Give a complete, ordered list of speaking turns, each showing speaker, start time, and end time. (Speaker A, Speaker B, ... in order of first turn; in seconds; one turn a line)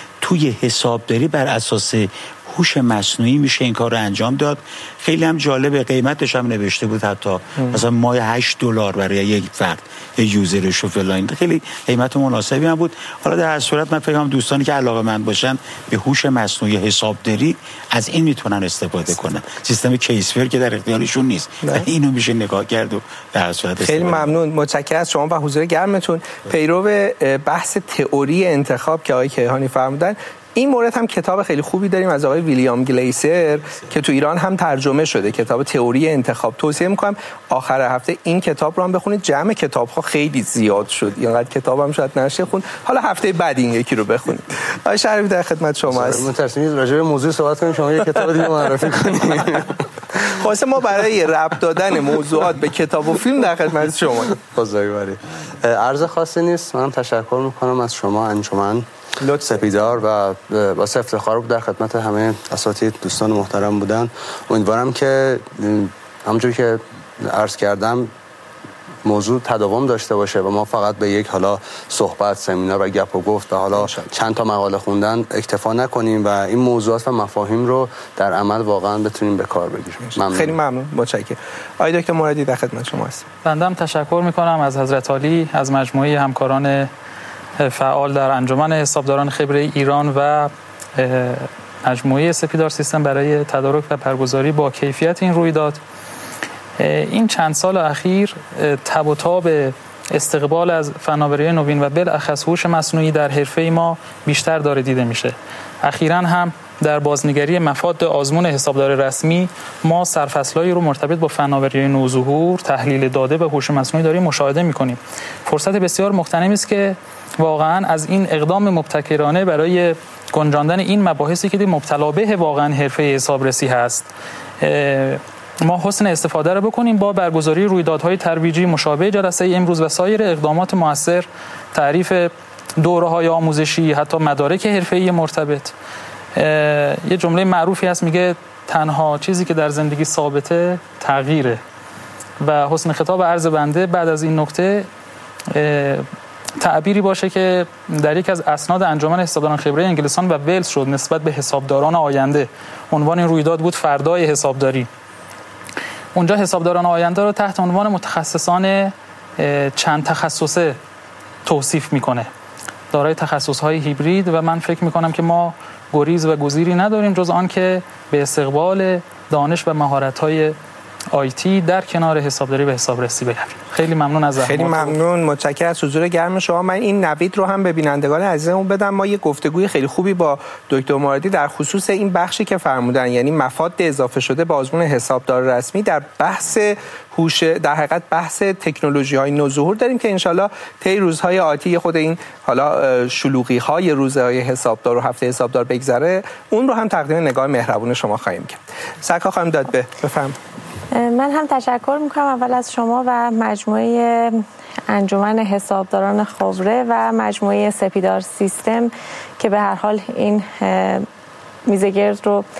Speaker A: 0.2-24.4
Speaker B: 23.8-46.3
Speaker C: 45.9-50.4
Speaker B: 48.4-48.7
Speaker B: 50.2-54.4
Speaker C: 54.4-68.1
Speaker B: 59.2-59.5
Speaker C: 69.0-80.6
Speaker B: 73.8-74.0
Speaker B: 80.0-83.3
Speaker D: 83.4-86.9
Speaker D: 87.6-95.8
Speaker D: 96.8-124.1
Speaker D: 124.6-135.7
Speaker D: 136.4-141.6
Speaker D: 142.4-144.9
Speaker D: 145.5-146.1
Speaker D: 146.6-154.9
Speaker D: 156.2-160.8
Speaker D: 161.4-162.3
Speaker D: 162.9-170.6
Speaker D: 171.1-175.0
Speaker B: 174.4-200.4
Speaker E: 200.9-211.1
Speaker E: 211.7-212.4